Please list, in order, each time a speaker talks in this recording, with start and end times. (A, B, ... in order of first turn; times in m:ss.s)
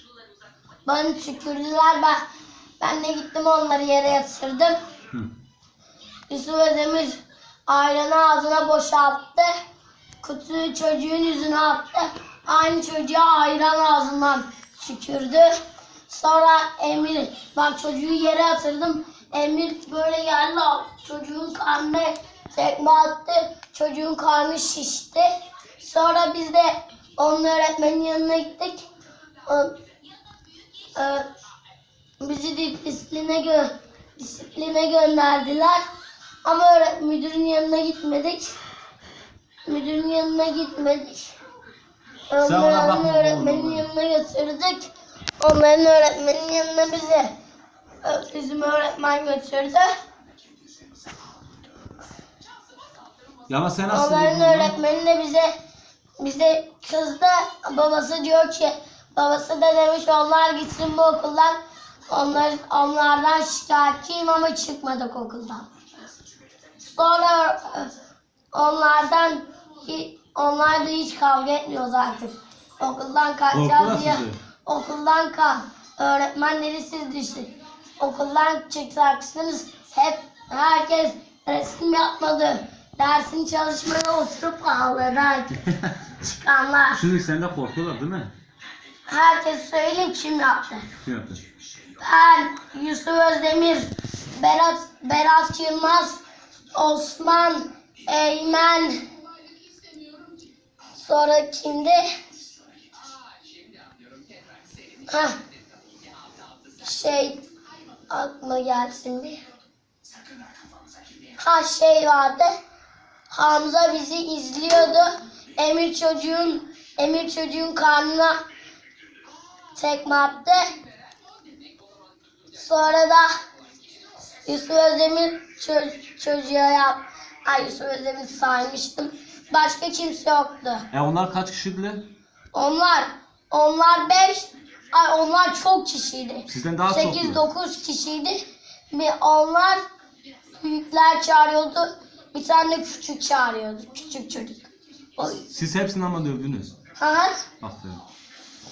0:00.9-0:02.2 A
0:02.8-0:04.8 A
0:06.3-0:09.6 A
0:10.2-0:28.9 A
0:29.5-0:29.7 A
0:30.9-0:31.3 A
0:32.2-0:35.8 A
0:36.4-0:38.6 A
0:39.7-0:41.3 A
0:42.3-0:47.3 A
0:42.4-0:43.9 B
0:48.0-0:49.9 A
0:53.5-0:54.8 B
0:53.9-0:55.5 A
0:56.2-1:05.7 A
1:06.8-1:07.9 A
1:08.5-1:25.6 A
1:13.5-1:14.4 B
1:26.2-1:27.0 A
1:26.9-1:28.3 B
1:29.1-1:30.9 A
1:31.0-1:31.4 B
1:32.0-1:36.2 A
1:36.7-1:39.0 A
1:41.0-1:42.0 A
1:45.1-1:45.4 A
1:46.8-1:47.4 A
1:48.1-1:49.4 A
1:51.4-1:52.5 A
1:53.3-1:58.4 A
1:59.8-2:00.7 A
2:02.5-2:03.3 A
2:04.5-2:10.9 A
2:10.9-2:12.0 B
2:12.5-2:19.8 A
2:16.5-2:17.4 B
2:20.6-2:25.5 A
2:25.5-2:26.7 B
2:27.0-2:27.5 A
2:27.6-2:28.0 B